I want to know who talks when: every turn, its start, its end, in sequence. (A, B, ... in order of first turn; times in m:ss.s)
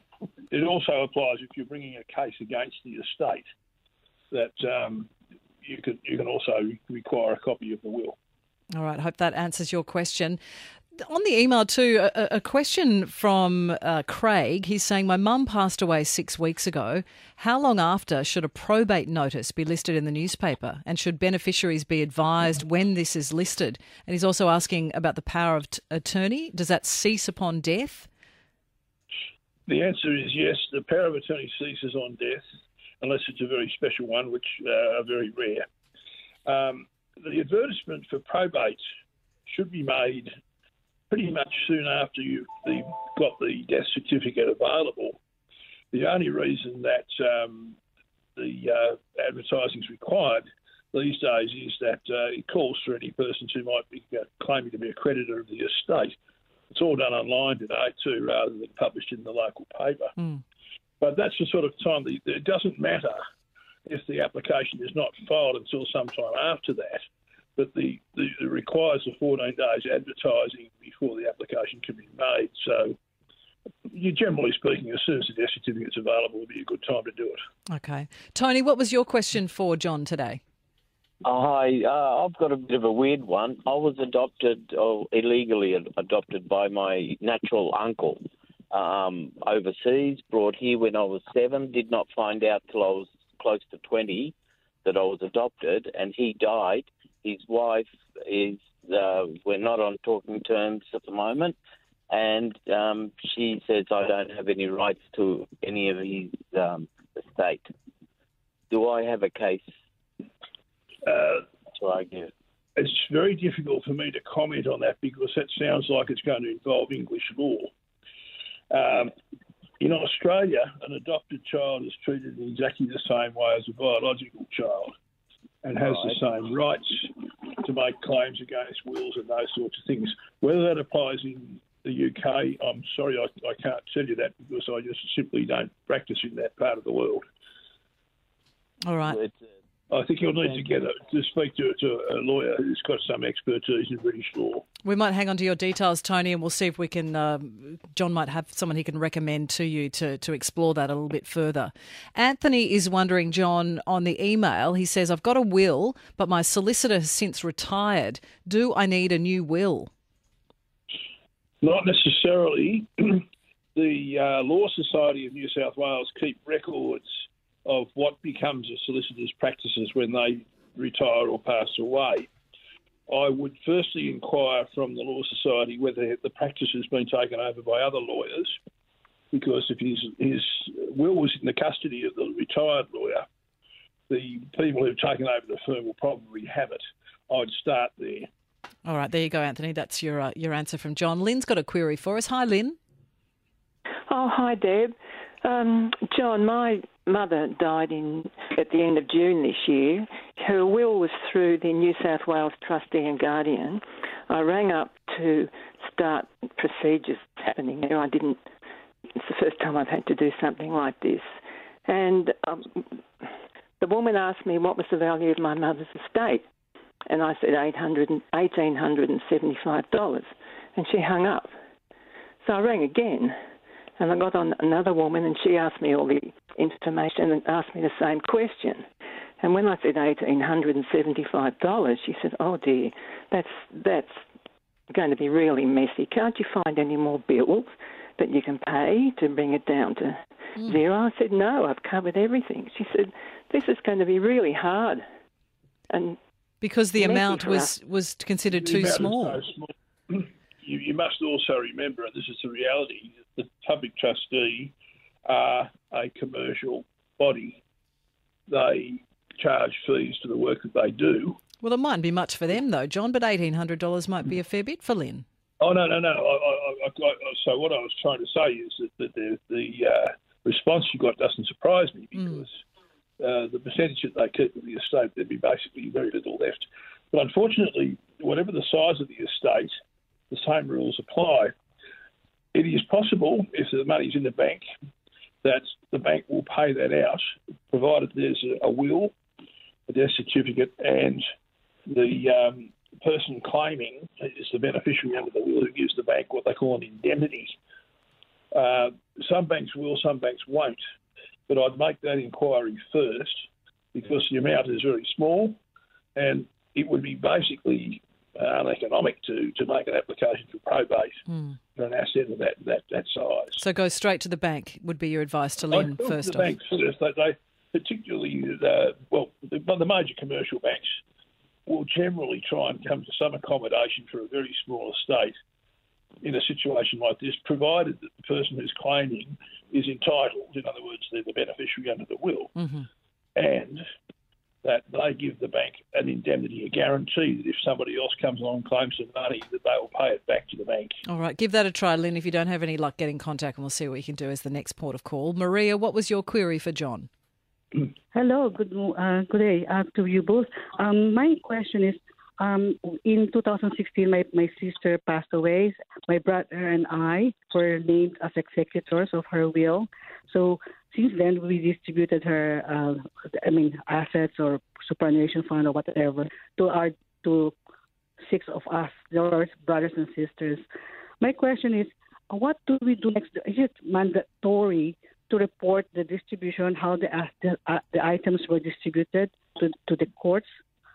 0:00.5-0:03.5 A
0:04.3-0:05.1 A
0:05.6-0:08.2 A
0:08.7-0:10.4 B
0:11.0-0:28.1 B
0:29.7-0:32.4 A
0:33.0-0:35.7 A
0:36.5-0:38.8 A
0:39.5-0:40.3 A
0:41.1-0:45.2 A
0:45.9-0:47.8 A
0:48.4-0:56.2 A
0:56.7-1:00.1 A
1:01.0-1:03.2 A
1:03.9-1:07.0 A
1:07.6-1:13.0 A
1:13.9-1:17.4 A
1:17.7-1:20.4 B
1:21.2-1:41.6 C
1:42.1-1:47.7 C
1:48.7-1:49.6 C
1:51.1-1:51.4 A
1:51.8-1:52.3 C
1:52.8-1:57.7 A
1:58.7-1:59.1 A
1:59.8-2:04.9 A
2:05.6-2:17.2 A
2:05.9-2:06.1 C
2:18.8-2:19.2 B
2:19.9-2:24.6 A
2:24.8-2:39.9 B
2:41.6-2:43.2 A
2:43.8-2:47.0 A
2:47.6-2:52.3 A
2:53.1-2:58.6 A
2:59.3-3:03.3 A
3:04.1-3:08.3 A
3:08.8-3:12.8 B
3:14.1-3:28.4 D
3:29.2-3:31.2 D
3:31.9-3:33.3 D
3:33.8-3:36.4 D
3:37.1-3:41.5 D
3:42.4-3:43.3 D
3:44.0-3:48.8 D
3:49.4-3:54.2 D
3:54.9-4:05.0 D
4:05.9-4:06.2 D
4:06.6-4:09.4 B
4:07.0-4:07.7 D
4:08.5-4:14.7 A
4:15.3-4:17.6 A
4:18.5-4:21.4 A
4:21.6-4:25.2 B
4:25.6-4:32.6 A
4:33.2-4:39.7 A
4:40.3-4:41.5 A
4:42.5-4:44.6 A
4:45.4-4:49.1 A
4:49.9-4:51.2 A
4:51.9-4:57.6 A
4:58.5-5:00.8 A
5:01.5-5:05.6 A
5:06.2-5:11.2 A
5:11.8-5:13.6 A
5:13.6-5:16.6 B
5:15.7-5:21.0 A
5:21.7-5:25.4 A
5:26.2-5:32.5 A
5:32.6-5:32.9 B
5:33.4-5:33.8 A
5:34.6-5:40.9 A
5:41.1-5:47.1 B
5:48.1-6:07.5 E
6:08.3-6:10.6 E
6:11.2-6:20.5 E